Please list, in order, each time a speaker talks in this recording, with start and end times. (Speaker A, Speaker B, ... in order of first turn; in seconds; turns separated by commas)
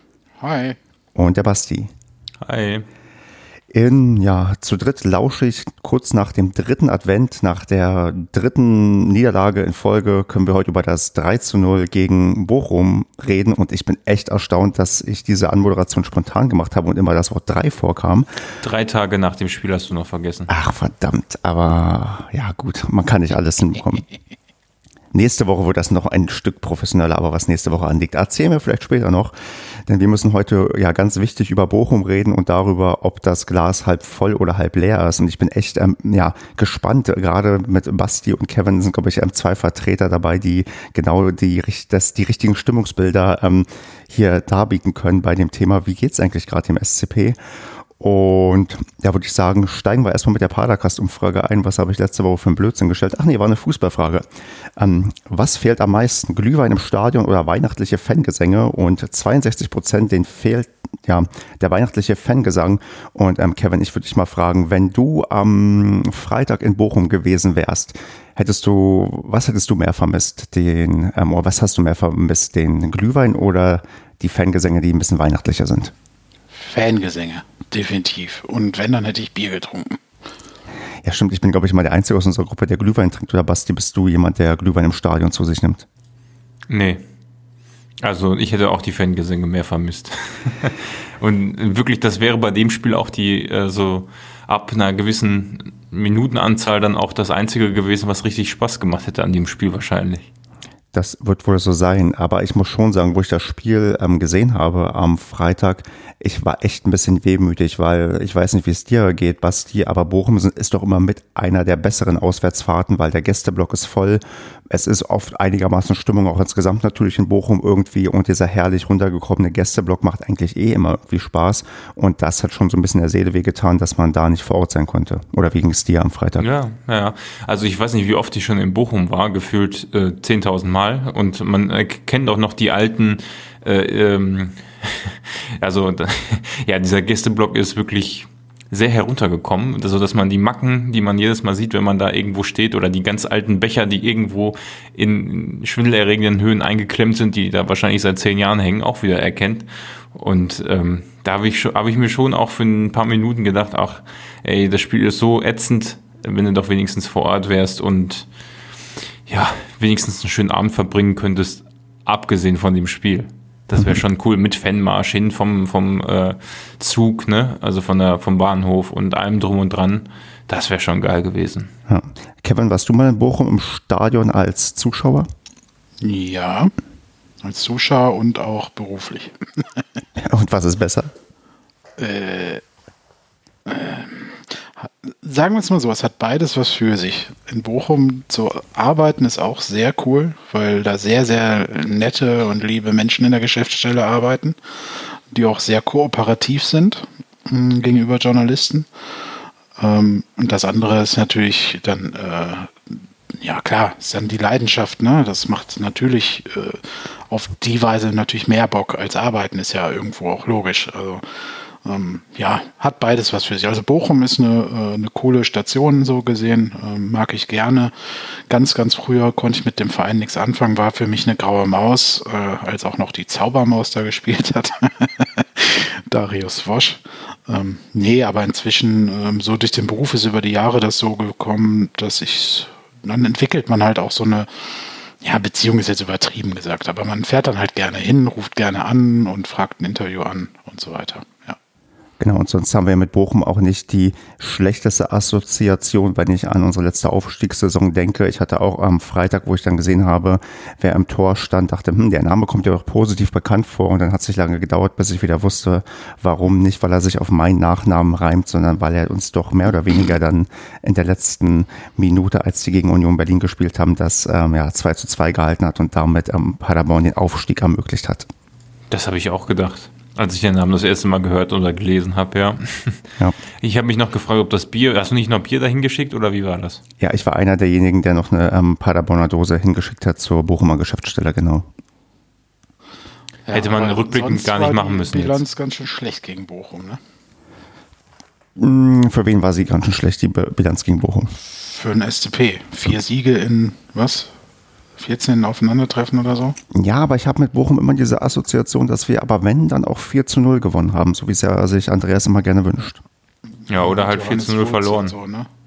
Speaker A: 0.4-0.8, Speaker B: 1.1-1.9, Speaker C: 2.4-2.9, Speaker B: 3.7-18.3, Speaker C: 18.6-20.5, Speaker B: 20.5-24.1, Speaker B: 25.1-29.3, Speaker B: 29.9-47.4, Speaker B: 48.0-54.2, Speaker B: 54.8-75.9, Speaker A: 76.6-80.0, Speaker B: 81.0-85.9, Speaker C: 86.7-87.0, Speaker C: 88.0-100.3, Speaker B: 100.9-126.4, Speaker C: 126.4-158.3, Speaker C: 159.3-171.7, Speaker B: 171.9-175.3, Speaker A: 176.0-176.7, Speaker A: 177.4-179.8, Speaker B: 180.2-181.1, Speaker A: 182.0-182.6, Speaker A: 183.7-198.9, Speaker A: 199.8-241.6, Speaker B: 242.2-268.3, Speaker C: 268.9-273.0, Speaker C: 273.6-276.8, Speaker B: 277.0-281.7, Speaker A: 283.5-287.0, Speaker C: 283.5-285.4, Speaker B: 288.6-291.4, Speaker A: 291.5-294.3, Speaker A: 295.0-296.6, Speaker B: 296.7-303.0, Speaker C: 303.7-305.1, Speaker A: 303.7-305.5